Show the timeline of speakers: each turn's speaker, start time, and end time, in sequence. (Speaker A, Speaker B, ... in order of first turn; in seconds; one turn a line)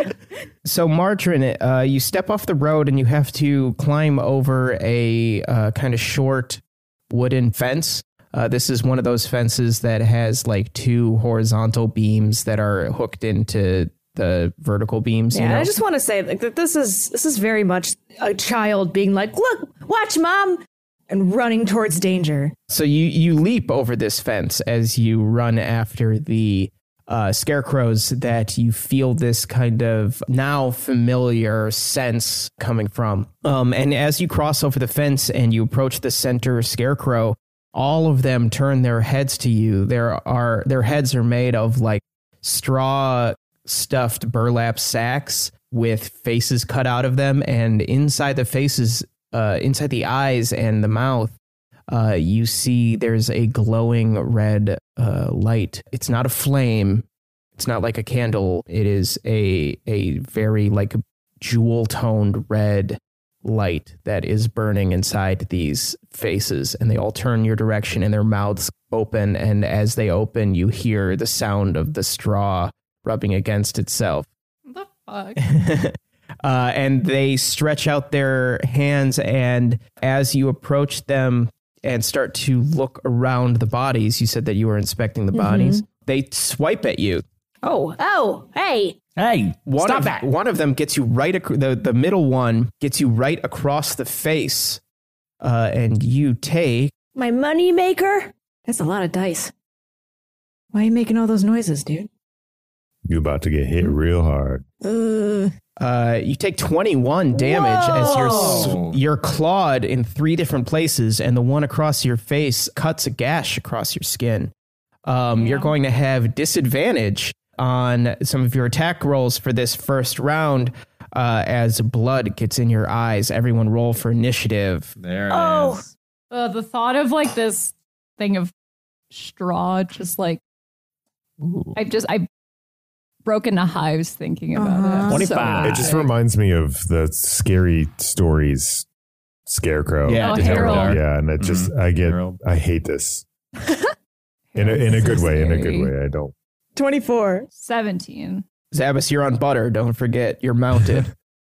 Speaker A: 0.6-15.7
Speaker B: 15.3-22.5
Speaker A: 22.7-51.4
Speaker A: 51.9-74.3
Speaker C: 74.7-75.4
Speaker A: 75.4-87.2
Speaker B: 85.3-85.8
Speaker B: 87.6-89.0
Speaker D: 89.2-90.2
Speaker A: 89.7-94.8
Speaker A: 95.4-96.9
Speaker B: 97.1-99.5
Speaker B: 100.7-102.1
Speaker E: 103.0-104.6
Speaker B: 104.8-105.5
Speaker A: 105.8-114.5
Speaker B: 107.3-108.8
Speaker D: 108.3-109.0
Speaker A: 115.0-125.0
Speaker C: 115.4-115.7
Speaker D: 125.0-125.9
Speaker B: 125.3-125.8
Speaker C: 126.3-128.5
Speaker C: 129.1-130.4
Speaker D: 131.4-131.8
Speaker C: 131.8-132.2
Speaker C: 133.2-136.0
Speaker B: 134.5-135.5
Speaker D: 135.1-136.0
Speaker E: 135.6-138.8
Speaker E: 139.5-143.2
Speaker D: 140.0-142.4
Speaker C: 140.2-141.0
Speaker C: 144.5-145.9
Speaker E: 144.6-146.3
Speaker B: 146.8-147.5
Speaker C: 147.5-148.4
Speaker A: 148.7-151.1